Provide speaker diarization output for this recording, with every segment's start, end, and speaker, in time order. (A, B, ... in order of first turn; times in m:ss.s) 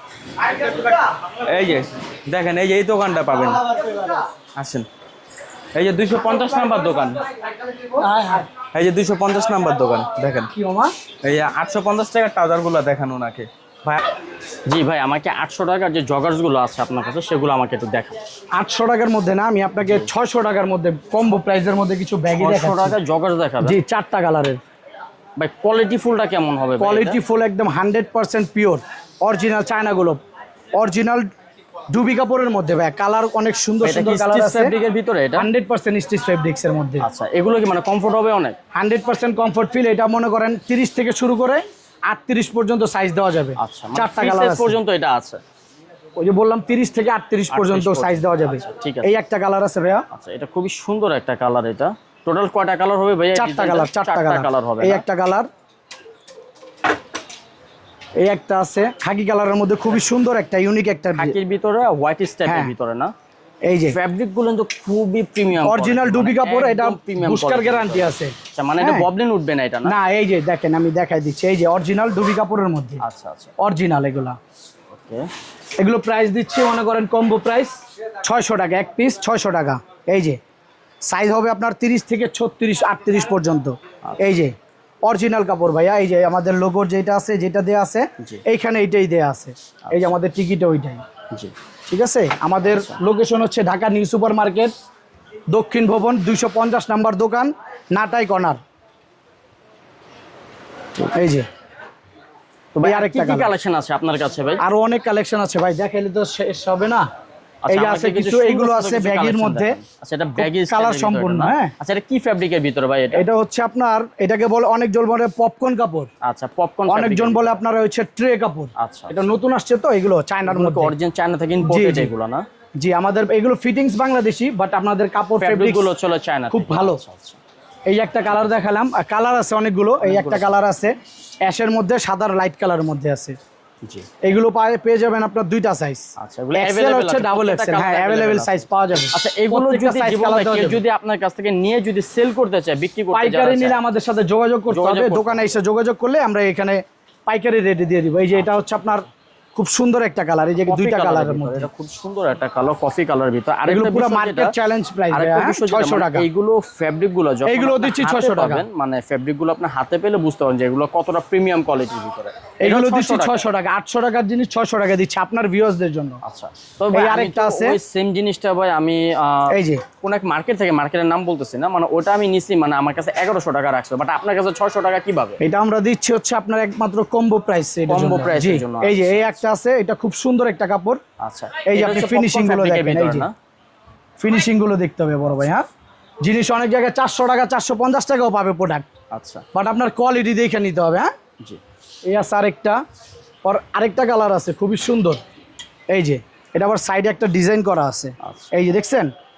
0:00.4-0:03.8 A
0:03.8-0:04.2 B
0:04.5-0:04.9 A
0:05.8-0:07.2 A
0:07.4-0:08.5 B
0:08.5-0:10.5 A
0:10.5-0:10.9 B
0:11.2-0:14.0 A
0:14.7-0:18.2 C
0:18.6-0:23.0 B
0:19.8-0:20.1 C
0:22.4-0:23.8 C
0:23.6-0:24.6 B
0:25.4-0:27.2 C
0:26.8-0:30.2 B
0:30.8-0:31.3 B
0:31.9-0:34.8 B
0:33.8-0:35.5 C
0:35.4-0:37.0 B
0:37.0-0:38.6 C
0:38.7-0:44.8 B
0:43.6-0:45.4 C
0:46.2-0:50.0 B
0:47.5-0:49.1 C
0:50.1-0:55.0 C
0:53.3-0:55.5 B
0:58.2-1:01.4 B
1:01.2-1:03.1 C
1:02.4-1:02.7 B
1:03.7-1:04.0 B
1:03.9-1:09.9 C
1:05.6-1:09.1 B
1:09.8-1:13.0 B
1:13.0-1:13.5 C
1:13.6-1:14.4 B
1:14.9-1:15.3 C
1:15.8-1:20.4 B
1:21.0-1:31.0 B
1:29.8-1:30.2 C
1:31.9-1:34.7 B
1:32.7-1:33.0 C
1:35.5-1:38.6 B
1:41.1-1:41.5 B
1:42.7-1:44.6 C
1:42.8-1:43.5 B
1:44.6-1:47.1 B
1:47.7-1:53.2 C
1:47.7-1:49.8 B
1:50.4-1:51.7 B
1:53.1-1:56.1 B
1:56.2-1:57.6 C
1:56.9-2:00.9 B
1:58.8-1:59.2 C
2:00.4-2:02.4 C
2:01.6-2:02.1 B
2:02.8-2:05.9 B
2:05.4-2:07.4 C
2:06.5-2:07.0 B
2:07.9-2:11.0 B
2:08.3-2:08.6 C
2:10.0-2:10.7 C
2:11.5-2:13.4 B
2:14.2-2:20.8 B
2:16.2-2:23.8 C
2:23.1-2:31.7 B
2:24.7-2:25.6 C
2:30.7-2:34.6 C
2:33.7-2:36.3 B
2:35.1-2:43.5 C
2:37.5-2:38.7 B
2:42.6-2:46.2 B
2:46.2-2:55.4 C
2:46.9-2:47.8 B
2:49.5-2:49.8 B
2:55.4-3:01.0 B
2:57.9-2:59.3 C
3:01.2-3:03.3 C
3:01.7-3:03.3 B
3:04.2-3:05.6 B
3:06.2-3:08.9 B
3:09.1-3:09.4 C
3:09.5-3:11.1 B
3:12.1-3:12.8 B
3:13.4-3:15.2 B
3:15.9-3:19.1 B
3:18.2-3:18.5 C